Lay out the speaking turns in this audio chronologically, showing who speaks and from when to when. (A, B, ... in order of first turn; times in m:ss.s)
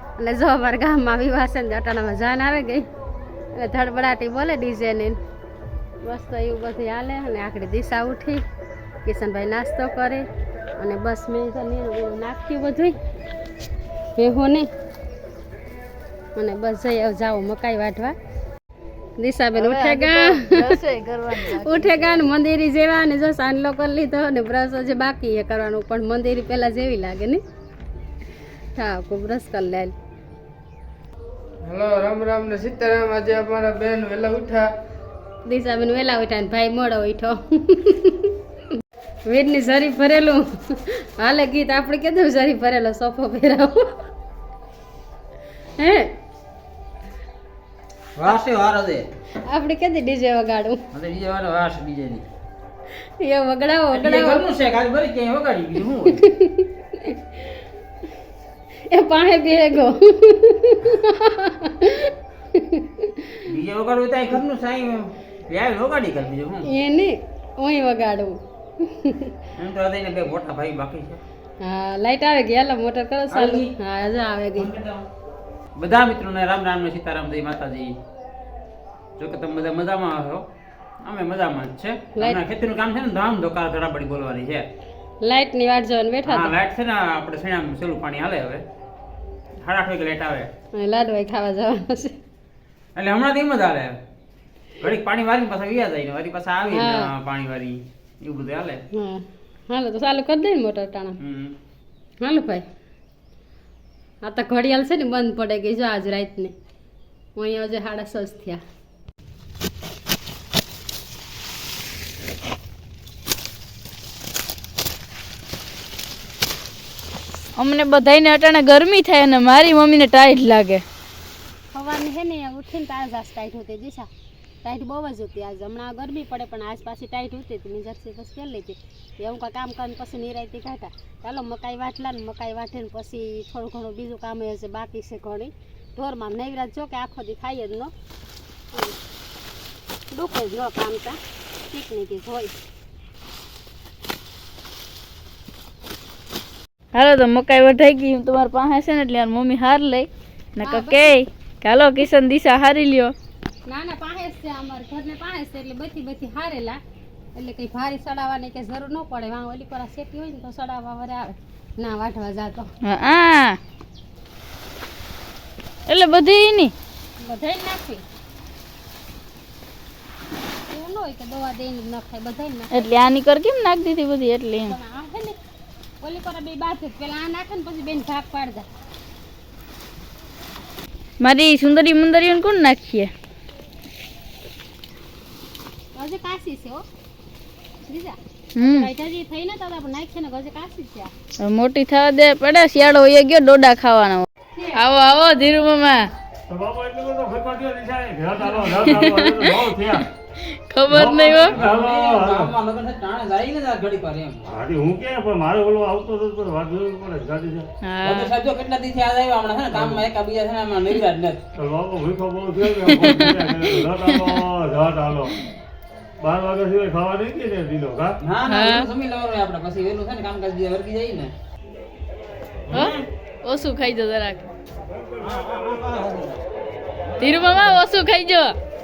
0:00.2-0:02.9 A
0:03.5-0:05.2 A
0:06.0-0:08.4 A
0:09.0-0:10.2 A
0:10.8-0:12.9 A
0:14.2-0:14.7 A
0:16.4-0:18.2 A
0:19.2-0:20.7 A
0:19.5-0:22.2 B
0:21.4-0:27.4 A
0:28.7-0:29.9 A
0:31.6-0:34.7 C
0:35.4-0:38.3 A
0:39.3-0:43.9 A
0:45.8-0:46.1 A
0:48.2-0:49.1 D
0:49.5-0:50.8 A
0:50.9-0:52.2 D
0:53.2-0:54.5 A
0:53.9-0:56.2 D
0:56.1-0:57.2 A
0:58.9-1:03.4 A
1:03.4-1:06.7 D
1:06.6-1:09.3 A
1:09.6-1:11.2 D
1:11.6-1:14.7 A
1:13.3-1:13.7 D
1:14.6-1:15.1 D
1:15.8-1:18.0 D
1:19.2-1:20.4 D
1:21.0-1:24.6 D
1:25.2-1:26.5 A
1:26.2-1:28.6 D
1:29.6-1:30.5 D
1:30.7-1:32.1 A
1:33.0-1:34.0 D
1:34.8-1:38.8 D
1:36.7-1:37.1 A
1:38.9-1:41.2 A
1:41.2-1:41.6 D
1:42.2-1:42.6 A
1:44.2-1:46.5 A
1:47.4-1:48.6 A
1:57.6-2:00.8 B
2:01.7-2:04.1 A
2:04.6-2:17.9 A
2:20.1-2:21.2 A
2:21.7-2:22.5 A
2:26.9-2:33.1 B
2:30.6-2:31.1 A
2:33.7-2:36.8 A
2:37.3-2:42.7 A
2:42.8-2:43.6 B
2:45.9-2:46.7 B
2:47.2-2:48.0 A
2:50.7-2:53.0 A
2:52.7-2:54.7 B
2:54.6-2:55.4 A
2:56.0-2:58.7 A
3:01.2-3:03.1 B
3:05.9-3:06.8 A
3:07.9-3:11.1 A
3:08.6-3:08.9 B
3:11.4-3:16.1 B
3:16.5-3:20.1 E
3:18.8-3:19.7 B
3:20.4-3:21.5 B
3:20.9-3:22.5 E
3:21.1-3:24.4 D
3:24.4-3:27.7 E
3:27.8-3:28.3 B
3:28.0-3:31.4 D
3:29.7-3:30.0 E
3:31.6-3:35.4 E
3:32.8-3:34.4 B
3:36.2-3:38.2 E
3:38.2-3:41.3 D
3:38.5-3:38.9 B
3:42.7-3:43.1 D
3:42.7-3:44.5 B
3:44.9-3:45.9 E
3:45.2-3:46.4 D
3:47.2-3:48.6 B
3:47.3-3:47.8 D